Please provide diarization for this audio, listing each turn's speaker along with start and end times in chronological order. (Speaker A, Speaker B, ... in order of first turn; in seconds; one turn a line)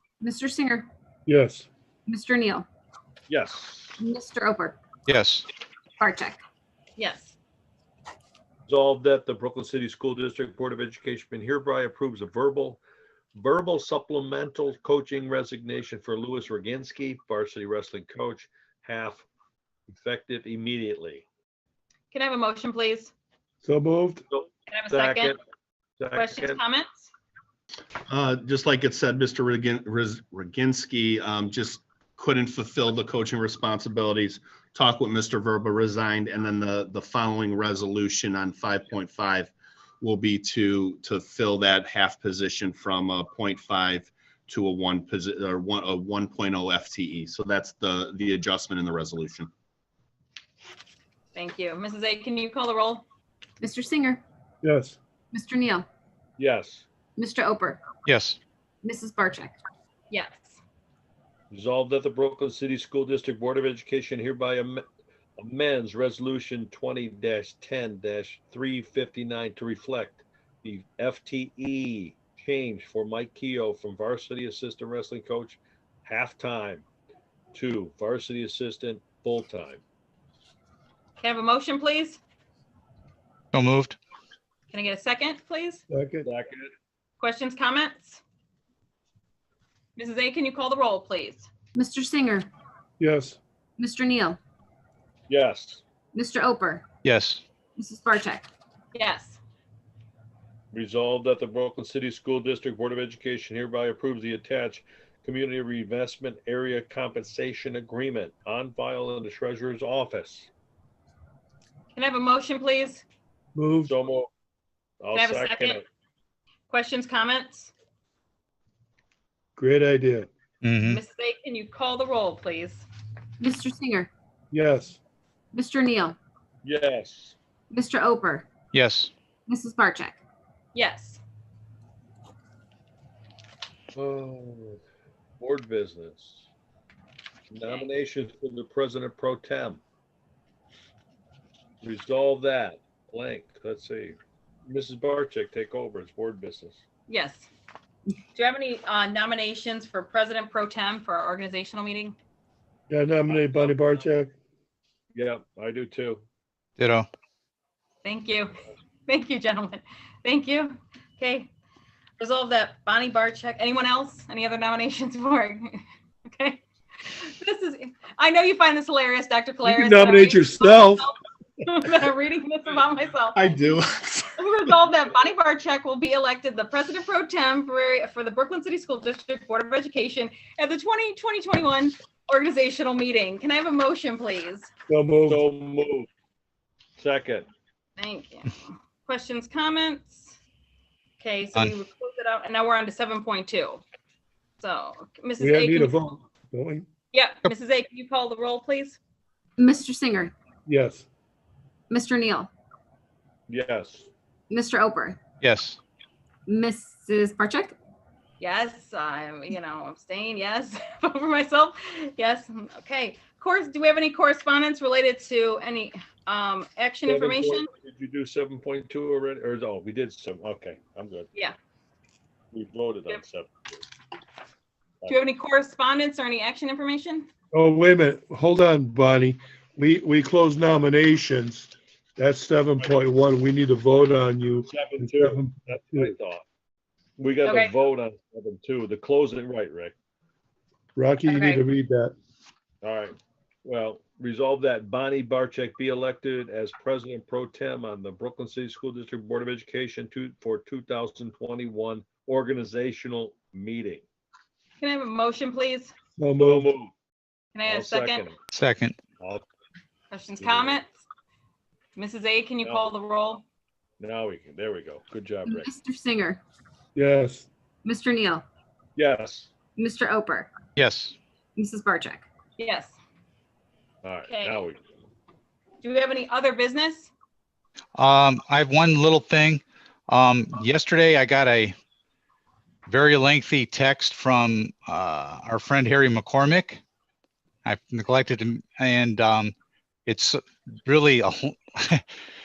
Speaker A: 0.2-0.9
Speaker B: 1.2-1.7
Speaker A: 2.0-2.6
Speaker C: 3.3-4.0
Speaker A: 4.0-4.8
Speaker D: 5.1-5.4
Speaker A: 6.0-6.4
Speaker E: 7.0-7.3
Speaker C: 8.7-12.8
Speaker C: 13.3-19.2
Speaker C: 19.9-21.2
Speaker E: 22.1-23.1
Speaker B: 23.6-24.2
Speaker C: 24.3-25.4
Speaker E: 24.7-25.4
Speaker C: 26.0-26.6
Speaker E: 26.1-27.1
Speaker F: 28.1-49.5
Speaker E: 51.3-53.0
Speaker A: 53.6-54.2
Speaker B: 54.6-55.0
Speaker A: 55.3-55.9
Speaker C: 56.4-56.9
Speaker A: 57.1-57.8
Speaker D: 58.0-58.4
Speaker A: 58.8-59.5
Speaker E: 60.1-60.6
Speaker C: 61.5-64.8
Speaker C: 65.4-76.8
Speaker C: 77.5-79.8
Speaker E: 81.2-82.2
Speaker D: 83.5-84.0
Speaker E: 84.7-85.8
Speaker B: 85.9-86.3
Speaker C: 86.2-86.7
Speaker E: 87.2-88.2
Speaker E: 90.0-91.5
Speaker A: 91.7-92.5
Speaker B: 93.0-93.4
Speaker A: 93.8-94.4
Speaker C: 95.3-95.8
Speaker A: 96.1-96.8
Speaker D: 97.0-97.4
Speaker A: 97.8-98.5
Speaker E: 98.9-99.4
Speaker C: 100.7-110.5
Speaker E: 111.9-113.0
Speaker B: 113.5-113.9
Speaker C: 113.9-114.3
Speaker C: 115.0-115.8
Speaker E: 115.1-115.8
Speaker E: 116.7-117.7
Speaker B: 119.5-120.3
Speaker D: 120.6-121.0
Speaker E: 120.8-122.8
Speaker A: 123.4-124.1
Speaker B: 124.5-125.0
Speaker A: 125.5-126.2
Speaker C: 126.6-127.3
Speaker A: 127.7-128.5
Speaker D: 128.7-129.1
Speaker A: 129.5-130.2
Speaker E: 130.7-131.2
Speaker C: 133.9-134.8
Speaker C: 135.4-136.5
Speaker C: 137.5-139.8
Speaker C: 141.8-146.8
Speaker E: 147.1-147.5
Speaker E: 148.3-152.2
Speaker B: 152.9-154.3
Speaker C: 155.1-156.2
Speaker D: 156.8-157.1
Speaker E: 158.0-158.5
Speaker E: 159.1-161.5
Speaker E: 162.2-173.5
Speaker B: 169.6-171.1
Speaker F: 173.3-174.4
Speaker E: 174.4-184.7
Speaker B: 184.9-185.4
Speaker C: 185.2-186.1
Speaker C: 187.0-187.4
Speaker E: 188.0-190.3
Speaker E: 191.2-193.8
Speaker E: 194.6-195.9
Speaker B: 195.4-196.9
Speaker E: 197.1-199.0
Speaker A: 199.6-200.3
Speaker B: 200.7-201.1
Speaker A: 201.9-202.5
Speaker C: 203.5-204.1
Speaker A: 204.5-205.2
Speaker D: 205.4-205.8
Speaker A: 206.5-207.7
Speaker E: 208.4-217.7
Speaker C: 217.1-221.3
Speaker C: 222.5-223.8
Speaker E: 225.1-227.3
Speaker B: 227.5-236.1
Speaker C: 234.7-236.4
Speaker C: 237.2-239.9
Speaker E: 237.4-237.7
Speaker B: 240.9-242.1
Speaker E: 241.3-241.6
Speaker C: 242.8-254.0
Speaker E: 254.8-255.9
Speaker B: 256.2-256.7
Speaker C: 256.4-256.9
Speaker E: 257.5-258.3
Speaker C: 257.6-258.4
Speaker D: 258.5-259.0
Speaker C: 259.2-259.4
Speaker E: 260.1-260.9
Speaker C: 260.4-260.8
Speaker E: 261.9-263.4
Speaker C: 262.6-262.9
Speaker C: 264.0-265.7
Speaker A: 265.4-266.4
Speaker B: 266.9-267.5
Speaker A: 267.8-268.4
Speaker C: 268.9-269.5
Speaker A: 269.8-270.5
Speaker D: 270.8-271.1
Speaker A: 271.6-272.3
Speaker E: 272.6-273.0
Speaker C: 274.0-275.0
Speaker E: 274.3-274.6
Speaker E: 275.8-277.1
Speaker D: 277.9-281.7
Speaker D: 282.9-286.8
Speaker D: 287.6-289.5
Speaker D: 290.1-292.0